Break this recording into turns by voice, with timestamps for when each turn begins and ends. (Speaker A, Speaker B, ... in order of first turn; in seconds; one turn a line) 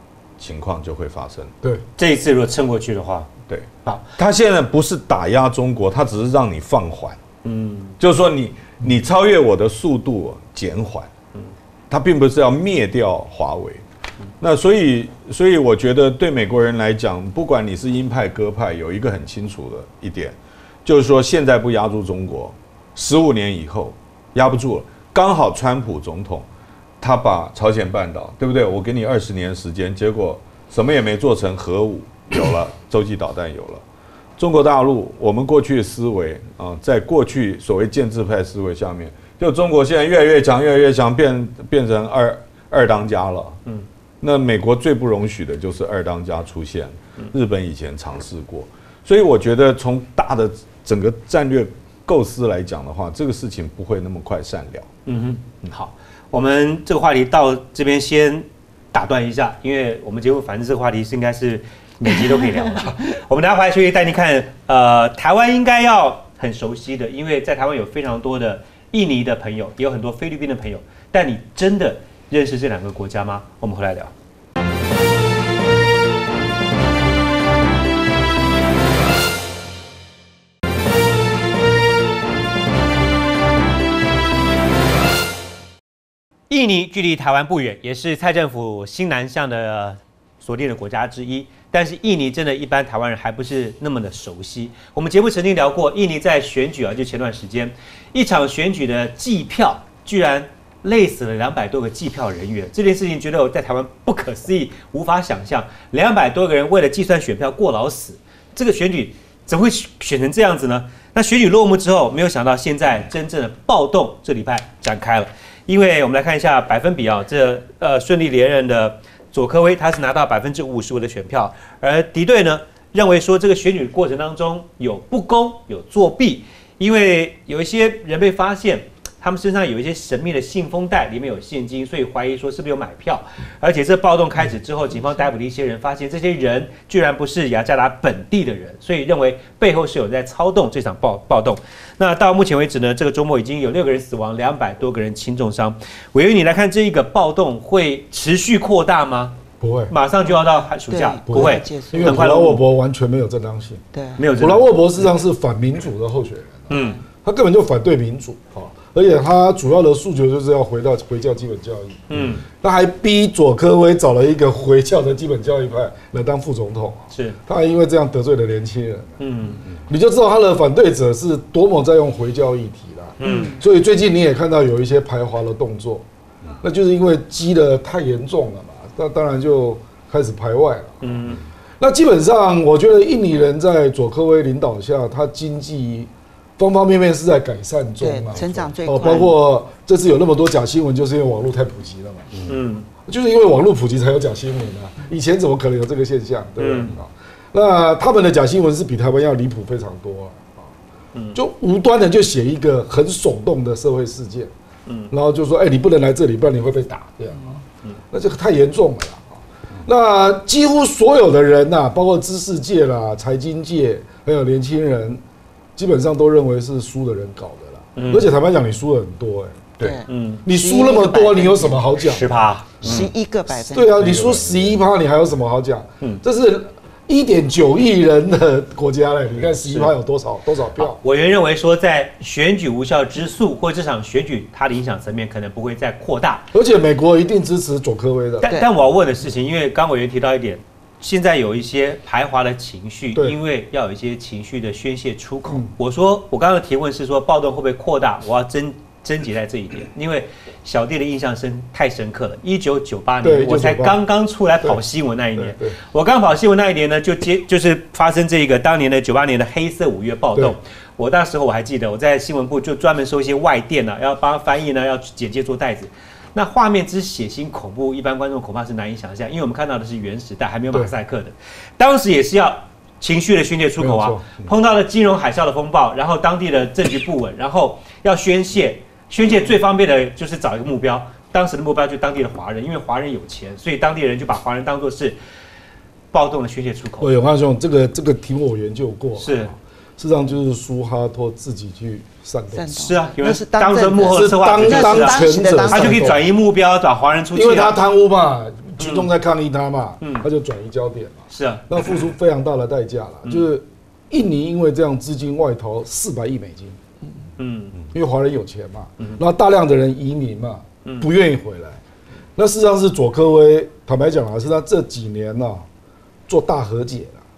Speaker A: 0.4-1.6
Speaker B: 2.0-3.3
Speaker A: 3.5-7.2
Speaker B: 7.5-8.0
Speaker A: 8.0-11.1
Speaker A: 11.9-13.8
Speaker A: 14.4-26.5
Speaker A: 27.0-33.8
Speaker A: 34.4-43.6
Speaker A: 44.2-54.9
Speaker B: 55.1-74.1
Speaker B: 86.5-152.6
Speaker C: 149.6-149.9
Speaker D: 150.9-152.3
Speaker C: 151.3-153.8
Speaker D: 153.9-154.2
Speaker B: 154.2-155.1
Speaker C: 154.4-169.2
Speaker B: 156.7-157.0
Speaker B: 162.1-162.4
Speaker B: 167.1-167.4
Speaker B: 169.2-169.6
Speaker C: 169.9-176.1
Speaker B: 173.2-173.6
Speaker D: 173.2-173.6
Speaker C: 176.6-181.2
Speaker B: 181.0-181.4
Speaker C: 181.8-192.4
Speaker D: 188.0-189.4
Speaker B: 192.5-192.9
Speaker C: 193.1-200.7
Speaker B: 196.6-196.9
Speaker B: 201.1-201.4
Speaker C: 201.3-204.5
Speaker B: 204.9-205.1
Speaker C: 205.1-209.3
Speaker C: 209.9-215.2
Speaker C: 215.8-222.9
Speaker B: 217.9-218.3
Speaker D: 219.8-221.9
Speaker B: 219.8-220.4
Speaker B: 222.0-223.1
Speaker D: 222.8-224.4
Speaker C: 223.7-231.0
Speaker B: 224.0-224.6
Speaker B: 229.7-229.9
Speaker B: 230.8-236.5
Speaker C: 236.5-238.5
Speaker B: 238.4-285.2
Speaker C: 253.2-254.0
Speaker C: 255.3-255.8
Speaker C: 273.8-274.2
Speaker B: 286.1-287.1
Speaker C: 287.0-292.8
Speaker B: 289.2-289.5
Speaker D: 292.5-296.2
Speaker B: 292.7-297.8
Speaker C: 294.1-296.3
Speaker C: 297.3-306.8
Speaker B: 298.8-299.1
Speaker B: 300.0-300.3
Speaker B: 301.3-302.0
Speaker B: 307.4-307.8
Speaker C: 307.9-311.8
Speaker C: 312.4-315.7
Speaker C: 316.3-317.2